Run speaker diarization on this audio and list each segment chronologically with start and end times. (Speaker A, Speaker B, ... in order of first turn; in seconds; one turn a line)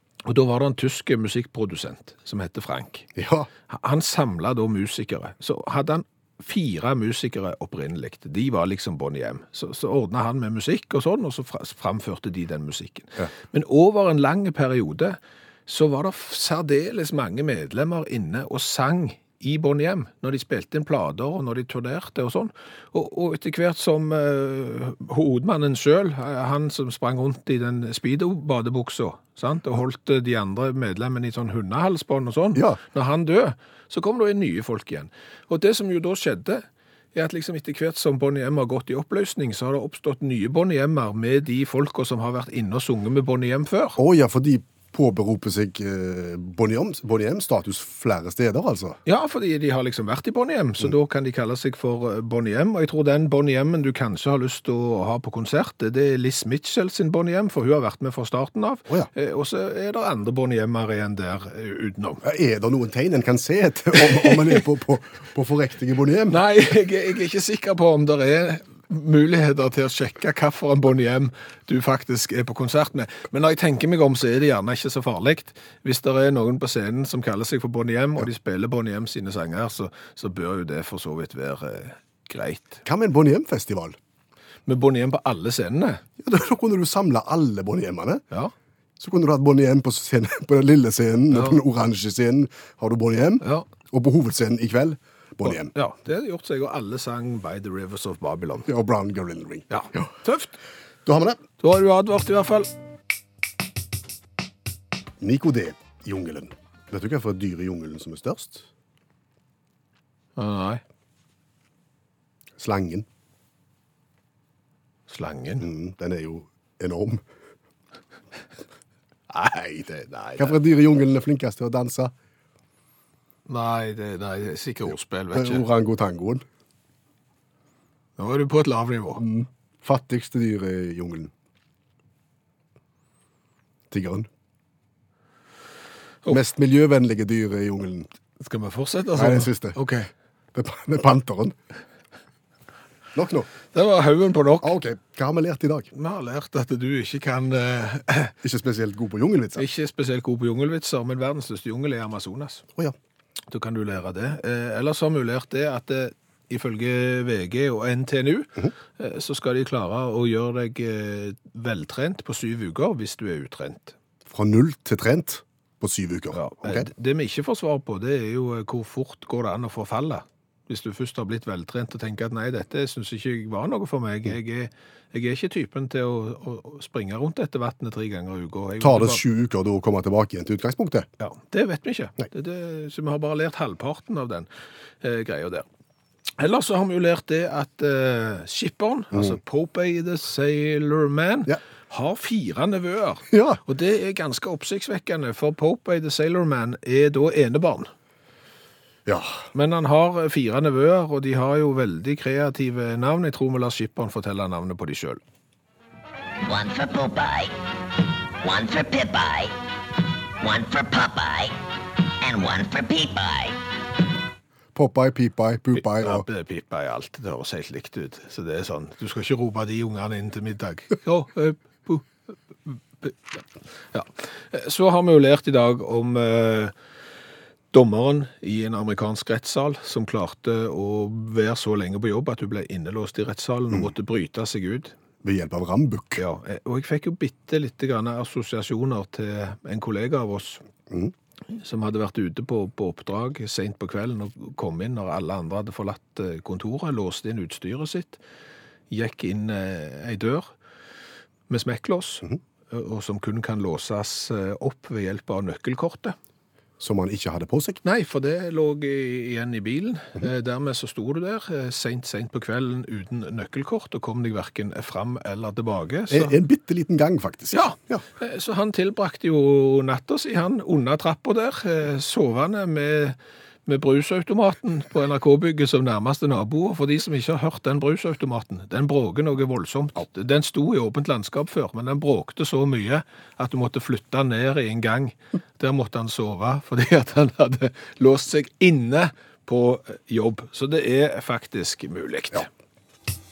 Speaker A: 0.2-3.1
Speaker B: 3.1-3.5
Speaker A: 3.7-44.0
Speaker B: 44.0-49.0
Speaker A: 49.1-62.2
Speaker B: 62.2-66.4
Speaker A: 64.2-64.6
Speaker A: 66.3-82.8
Speaker B: 82.8-84.0
Speaker A: 84.7-86.0
Speaker B: 86.2-88.2
Speaker B: 89.0-95.7
Speaker A: 91.3-91.6
Speaker A: 93.4-93.7
Speaker A: 95.4-98.7
Speaker B: 98.7-100.1
Speaker A: 99.7-100.6
Speaker B: 101.1-101.4
Speaker A: 101.6-102.7
Speaker B: 105.2-108.7
Speaker A: 110.4-110.8
Speaker B: 112.6-113.0
Speaker A: 115.1-115.7
Speaker B: 115.6-117.2
Speaker A: 119.3-120.6
Speaker B: 120.4-122.1
Speaker A: 123.5-125.7
Speaker B: 125.3-126.4
Speaker A: 128.2-129.2
Speaker B: 129.2-131.3
Speaker B: 133.9-134.3
Speaker B: 136.3-138.1
Speaker A: 138.4-140.1
Speaker B: 139.1-139.8
Speaker B: 140.5-141.6
Speaker B: 143.1-143.5
Speaker A: 143.7-144.8
Speaker B: 144.6-145.9
Speaker A: 145.9-148.3
Speaker B: 148.4-149.7
Speaker A: 149.6-152.6
Speaker A: 153.5-163.9
Speaker B: 164.3-166.9
Speaker A: 166.3-179.2
Speaker B: 178.8-181.1
Speaker A: 181.2-184.5
Speaker A: 185.0-185.6
Speaker A: 186.4-197.9
Speaker B: 193.3-193.6
Speaker B: 199.1-199.4
Speaker A: 199.5-205.2
Speaker C: 206.4-207.5
Speaker C: 208.4-209.5
Speaker C: 210.4-211.6
Speaker C: 212.2-213.6
Speaker B: 214.8-216.3
Speaker A: 215.8-222.1
Speaker A: 222.7-223.4
Speaker A: 223.9-226.7
Speaker A: 227.7-234.9
Speaker B: 235.2-236.2
Speaker A: 236.2-240.6
Speaker A: 241.5-248.2
Speaker A: 248.9-250.5
Speaker A: 251.5-256.1
Speaker B: 256.8-257.8
Speaker A: 257.8-266.4
Speaker B: 266.1-268.0
Speaker A: 267.5-292.5